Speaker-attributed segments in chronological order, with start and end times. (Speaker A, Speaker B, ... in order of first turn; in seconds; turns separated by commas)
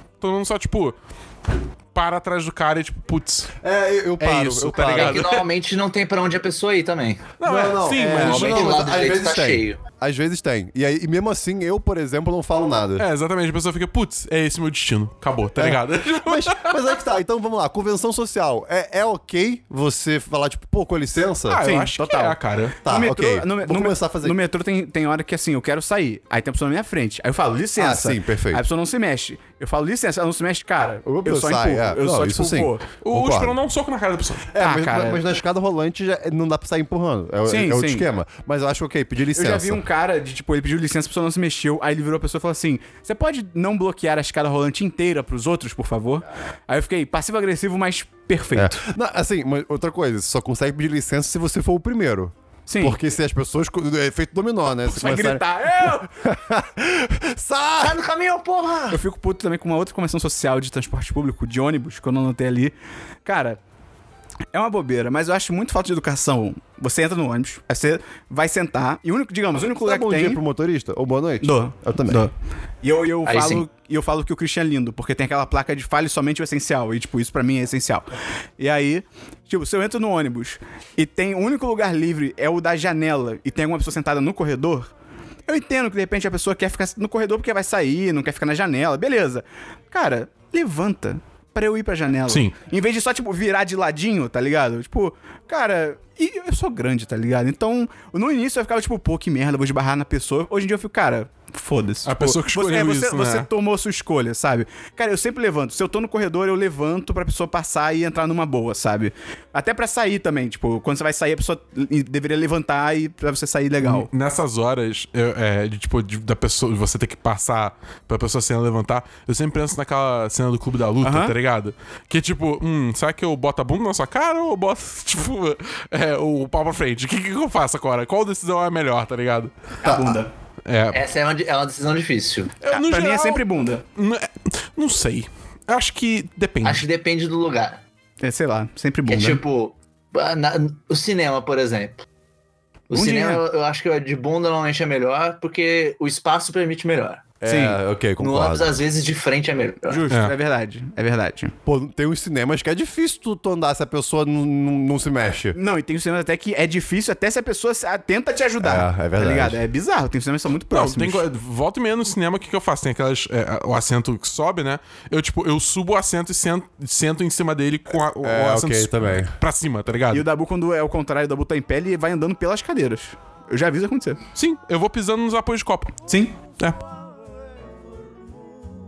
Speaker A: 0.2-0.9, Speaker A: 1.9-3.5, Speaker B: 3.6-5.3, Speaker A: 4.2-5.5, Speaker C: 4.8-7.3, Speaker A: 7.4-8.9, Speaker B: 7.4-13.1, Speaker C: 8.0-9.8, Speaker A: 13.0-16.8, Speaker B: 15.6-21.6, Speaker A: 21.5-22.8, Speaker D: 21.6-32.8, Speaker B: 22.8-24.4, Speaker B: 27.8-28.6, Speaker B: 31.0-33.6, Speaker A: 33.0-34.5, Speaker B: 34.5-39.8, Speaker D: 34.5-35.2, Speaker D: 37.5-38.1, Speaker D: 39.3-48.8, Speaker B: 48.5-58.0, Speaker D: 52.7-53.0, Speaker D: 54.8-56.1, Speaker C: 57.8-59.0, Speaker D: 58.9-62.7, Speaker D: 63.2-63.6, Speaker D: 64.5-70.4, Speaker B: 69.7-72.3, Speaker D: 71.4-78.1, Speaker C: 73.2-73.6, Speaker D: 78.6-84.9, Speaker D: 85.5-114.1, Speaker A: 102.0-103.5, Speaker A: 113.8-129.5, Speaker D: 121.0-121.3, Speaker D: 129.8-130.3, Speaker B: 129.8-130.2, Speaker A: 130.7-131.0, Speaker C: 130.9-132.5, Speaker A: 132.6-136.8, Speaker D: 132.7-133.8, Speaker C: 136.6-137.8, Speaker D: 138.2-139.4, Speaker C: 139.1-142.0, Speaker C: 142.9-147.2, Speaker D: 142.9-143.4, Speaker B: 147.4-148.8, Speaker D: 147.4-147.8, Speaker C: 148.2-150.0, Speaker D: 149.9-151.5, Speaker B: 151.7-155.6, Speaker D: 155.5-161.2, Speaker B: 158.6-159.6, Speaker A: 160.7-170.2, Speaker B: 168.2-169.3, Speaker D: 170.1-174.2, Speaker A: 174.3-175.9, Speaker D: 176.1-176.3